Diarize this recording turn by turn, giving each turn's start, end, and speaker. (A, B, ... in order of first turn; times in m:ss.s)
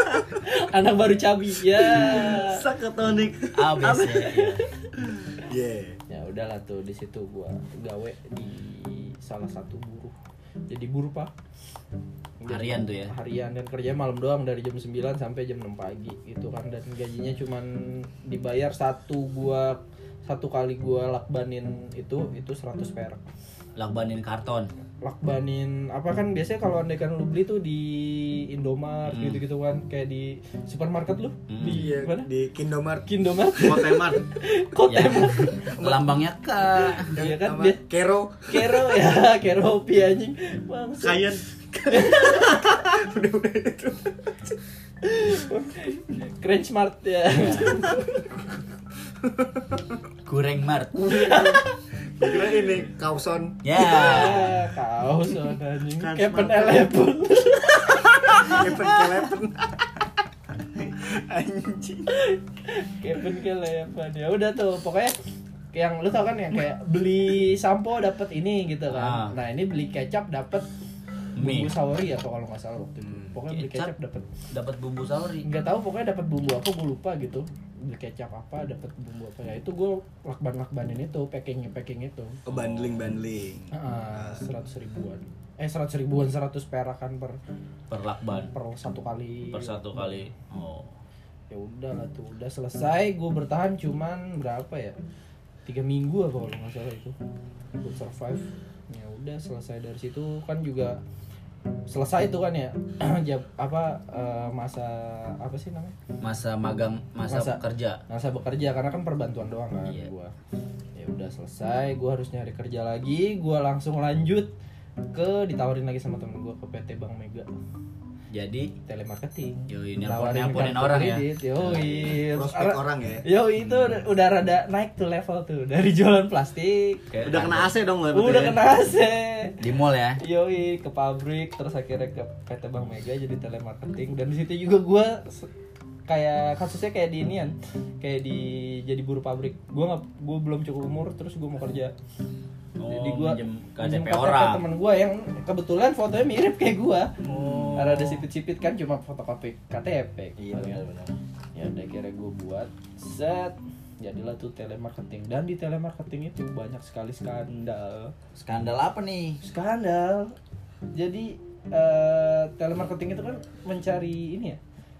0:00.4-0:02.6 A
0:02.0-0:04.0 B
0:03.5-0:04.6 C
0:03.9-0:04.5 A
0:05.4-0:06.0 D
0:06.1-0:10.1 A
0:10.7-0:11.3 A
0:12.4-0:23.2 A
0:12.5-0:13.1 C
0:23.8-0:24.7 C
0:25.0-0:32.3 A
0:29.1-0:29.4 C
0:31.5-0:32.0 C
0:31.6-0:33.1 D
0:33.1-0:35.6 A
0:33.6-0:34.2 B
0:34.9-0:37.2 C
0:35.8-0:36.1 D
0:37.0-0:39.0 D
0:37.1-0:37.8 A
0:38.5-0:41.2 A
0:41.0-0:41.4 B
0:41.8-0:44.3 D
0:41.9-0:42.5 A
0:45.0-0:48.2 A
0:47.3-0:47.8 C
0:49.2-0:49.6 D
0:50.2-0:51.5 C
0:51.1-0:51.6 A
0:52.2-0:53.6 D
0:53.6-0:54.6 C
0:53.7-0:58.6 A
0:56.0-0:56.9 B
0:58.4-0:59.8 D
1:01.0-1:02.1 D
1:02.2-1:05.1 A
1:05.7-1:10.7 A
1:08.9-1:09.3 C
1:11.4-1:11.7 C
1:11.4-1:14.3 A
1:13.4-1:13.9 C
1:14.5-1:15.4 C
1:15.4-1:22.4 A
1:22.4-1:23.1 C
1:22.4-1:24.4 D
1:23.7-1:27.4 A
1:27.9-1:28.5 C
1:28.4-1:30.2 A
1:29.5-1:30.9 C
1:31.5-1:35.0 A
1:35.6-1:37.1 A
1:37.8-1:41.0 A
1:41.9-1:46.0 A
1:46.2-1:48.0 C
1:47.3-1:50.3 A
1:49.8-1:50.1 C
1:51.0-1:54.5 A
1:55.1-1:57.5 A
1:58.3-1:58.7 C
1:58.8-2:07.1 A
1:59.7-2:02.2 C
2:02.1-2:03.2 D
2:03.6-2:04.0 C
2:07.1-2:07.7 C
2:07.2-2:08.6 B
2:08.1-2:09.6 A
2:09.6-2:10.2 C
2:10.2-2:15.5 A
2:16.1-2:21.9 A
2:22.8-2:24.6 C
2:22.8-2:30.8 A
2:27.2-2:28.2 C
2:30.4-2:31.1 C
2:31.6-2:38.1 A
2:38.3-2:39.4 C
2:39.4-2:40.3 A
2:40.9-2:44.6 A